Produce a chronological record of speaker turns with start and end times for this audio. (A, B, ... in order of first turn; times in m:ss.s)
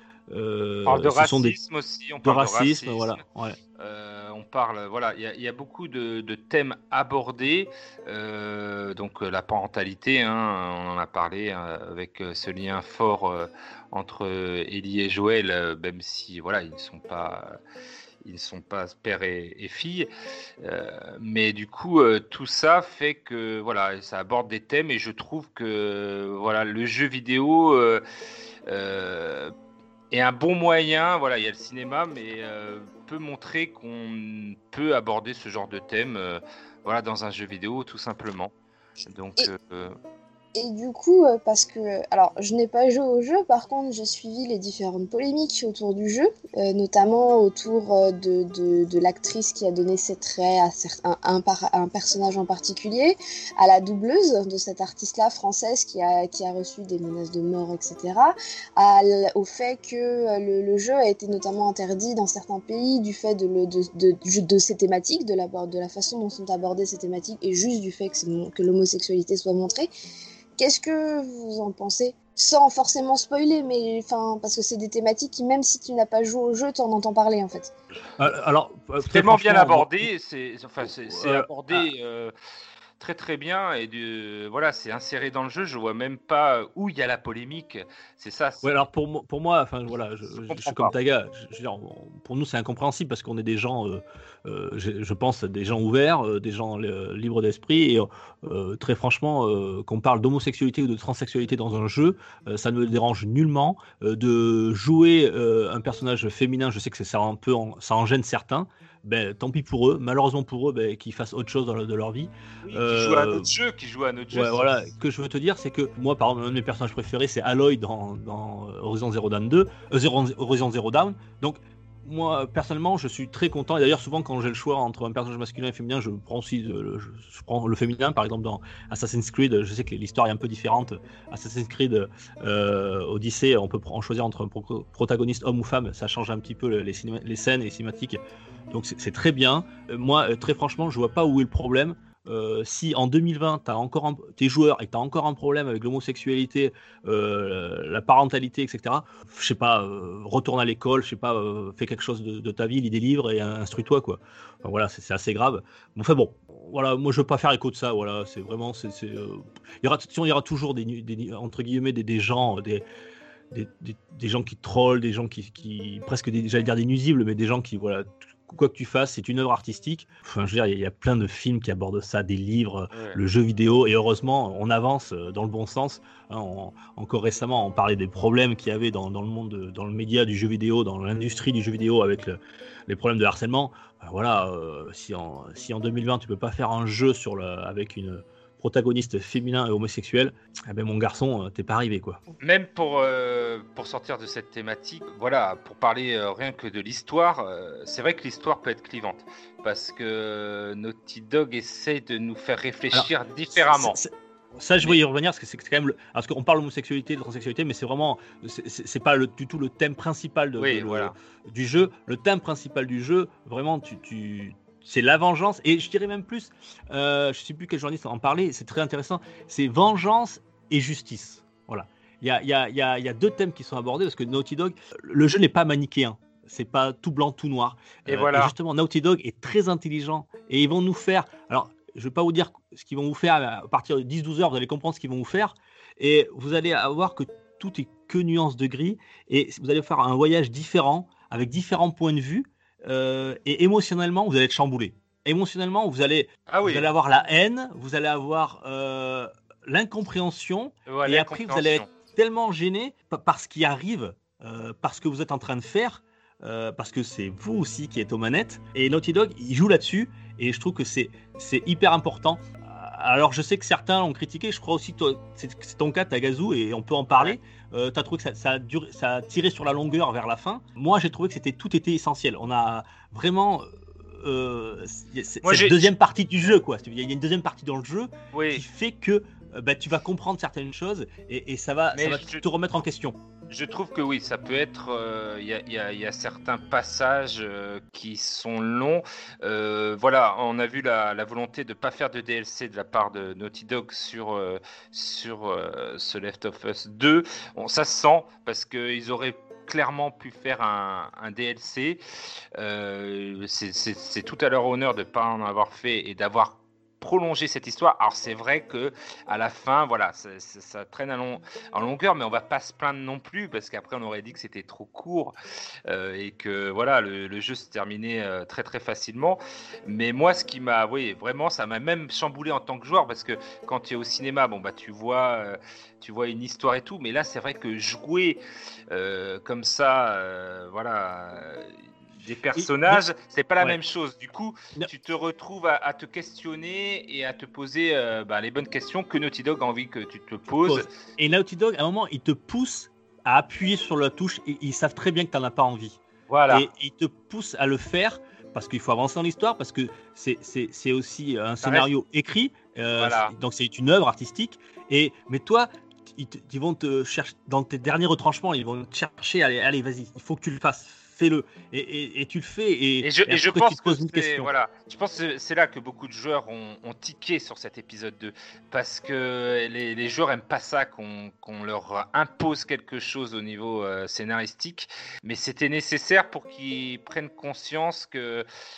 0:00.3-0:01.6 A
0:00.9-0:03.2 B
0:02.2-0:03.6 A
0:03.8-0:17.6 B
0:18.2-0:20.1 B
0:20.6-0:28.0 B
0:28.7-0:29.5 B
0:30.1-0:38.5 B
0:39.1-0:40.0 B
0:40.5-1:09.9 C
1:10.6-1:17.7 C
1:18.2-1:20.1 A
1:19.0-1:22.3 B
1:20.8-1:21.8 A
1:23.0-1:28.8 B
1:28.6-1:53.5 A
1:30.5-1:30.9 B
1:52.6-1:54.9 B
1:54.3-2:42.8 A
2:43.5-3:12.2 A
2:52.9-2:53.2 B
3:12.4-3:24.0 B
3:22.9-4:43.2 A
3:30.6-3:31.1 B
3:48.0-3:48.5 B
4:06.5-4:06.9 B
4:10.9-4:11.9 B
4:35.4-4:35.9 B
4:38.3-4:38.6 B
4:41.9-4:42.4 B
4:43.5-5:02.0 B
5:02.6-5:15.4 B
5:15.9-5:41.0 B
5:32.6-5:33.0 A
5:40.5-6:04.5 A
5:46.3-5:46.7 B
5:51.6-5:51.9 B
5:52.9-5:53.3 B
6:03.0-6:18.4 B